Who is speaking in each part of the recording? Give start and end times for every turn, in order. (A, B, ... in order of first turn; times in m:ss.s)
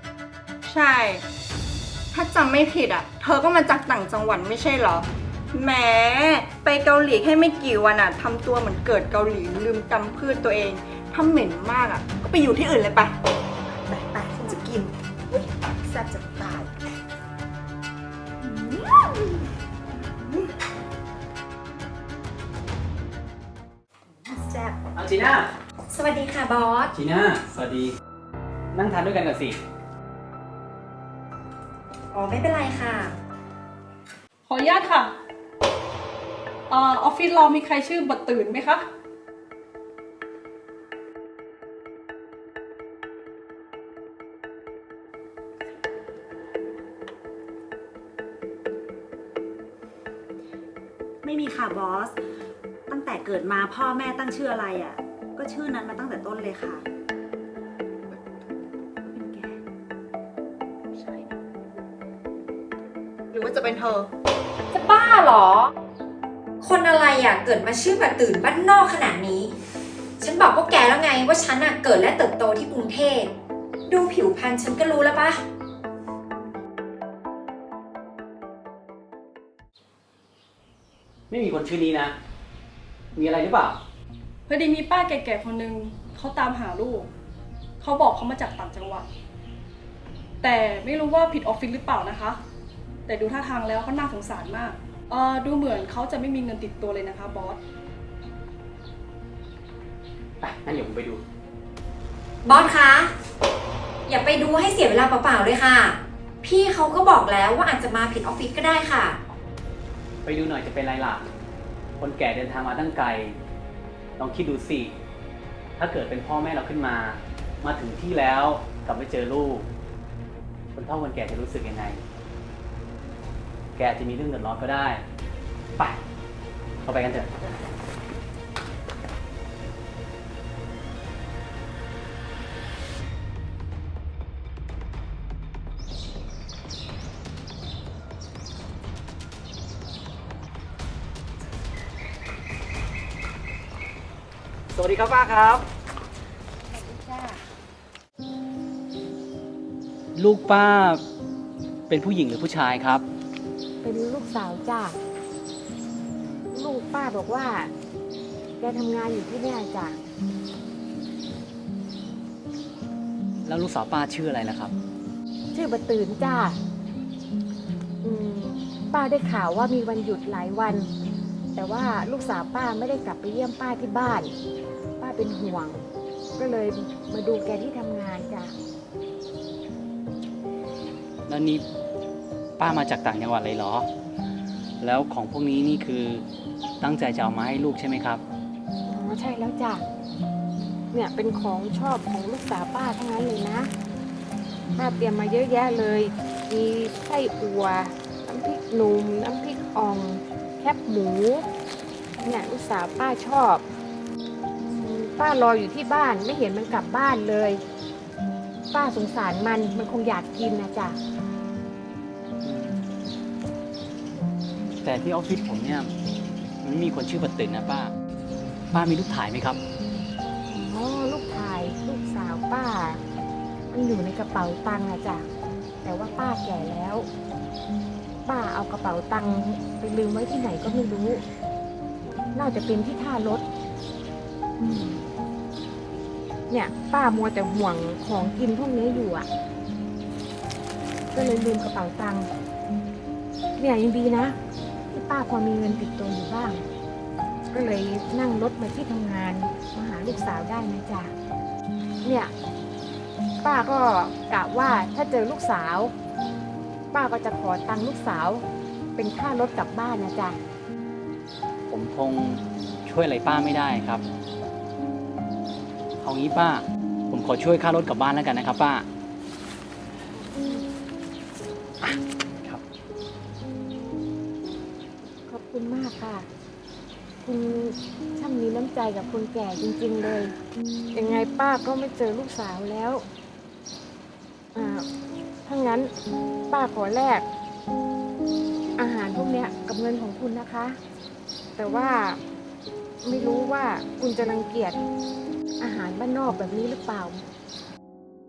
0:00.7-0:01.2 A
0:02.1-0:13.1 A
0:13.9-0:14.8 B
0:15.9-0:16.7 B
0:24.2-0:24.8 B
0:25.0-0:25.5 C
0:25.9-0:27.0 D
0:26.9-0:27.9 C
0:28.7-0:29.6 C
0:32.1-0:33.2 D
0:34.5-0:35.1 E
0:36.7-0:38.8 E
0:51.2-0:52.2 B
0:52.9-0:56.8 B
0:59.1-0:59.5 B
1:00.9-1:01.3 A
1:03.3-1:04.1 A
1:04.7-1:05.7 D
1:06.6-1:09.6 D
1:10.2-1:13.3 D
1:13.9-1:15.4 D
1:21.3-1:22.1 C
1:23.2-1:23.8 C
1:24.5-1:27.1 E
1:27.8-1:29.1 E
1:30.4-1:32.4 E
1:33.1-1:37.6 E
1:40.4-1:41.2 C
1:42.4-1:43.1 D
1:44.1-1:49.2 D
1:50.2-1:51.3 C
1:52.0-1:53.4 C
1:54.2-1:54.9 C
1:55.8-1:59.7 C
2:00.8-2:02.0 C
2:03.8-2:05.0 C
2:06.8-2:07.3 C
2:24.7-2:25.6 C
2:26.7-2:27.4 D
2:30.2-2:31.0 C
2:31.9-2:33.0 C
2:33.8-2:35.0 F
2:36.5-2:37.7 F
2:38.6-2:40.0 F
2:43.4-2:44.7 C
2:45.5-2:46.6 F
2:48.0-2:50.9 F
2:51.5-2:54.3 F
2:55.0-2:55.8 F
2:56.4-2:58.5 F
3:01.3-3:01.6 C
3:02.6-3:03.9 C
3:04.8-3:06.2 C
3:06.8-3:08.2 C
3:08.9-3:09.8 F
3:10.9-3:13.7 F
3:14.8-3:21.5 F
3:22.2-3:23.6 F
3:24.6-3:27.6 F
3:28.7-3:31.0 F
3:32.4-3:32.8 C
3:34.8-3:35.9 C
3:36.6-3:37.9 C
3:38.7-3:39.6 C
3:40.5-3:43.0 F
3:43.7-3:45.3 F
3:45.8-3:47.1 F
3:48.2-3:51.2 F
3:52.3-3:53.4 F
3:54.6-3:55.0 F
3:56.5-3:59.3 F
4:01.1-4:02.3 F
4:03.6-4:04.4 F
4:04.9-4:06.6 F
4:07.5-4:11.1 F
4:12.0-4:12.3 F
4:13.4-4:15.9 F
4:16.9-4:18.4 F
4:19.0-4:20.4 F
4:21.7-4:24.0 C
4:26.0-4:28.9 C
4:30.2-4:30.6 F
4:31.8-4:32.6 C
4:35.3-4:36.3 F
4:37.2-4:40.4 F
4:40.9-4:43.0 F
4:44.5-4:44.9 F
4:45.4-4:45.9 F
4:46.5-4:47.2 F
4:48.8-4:50.8 F
4:51.6-4:52.2 F
4:53.0-4:54.8 F
4:55.6-4:57.2 F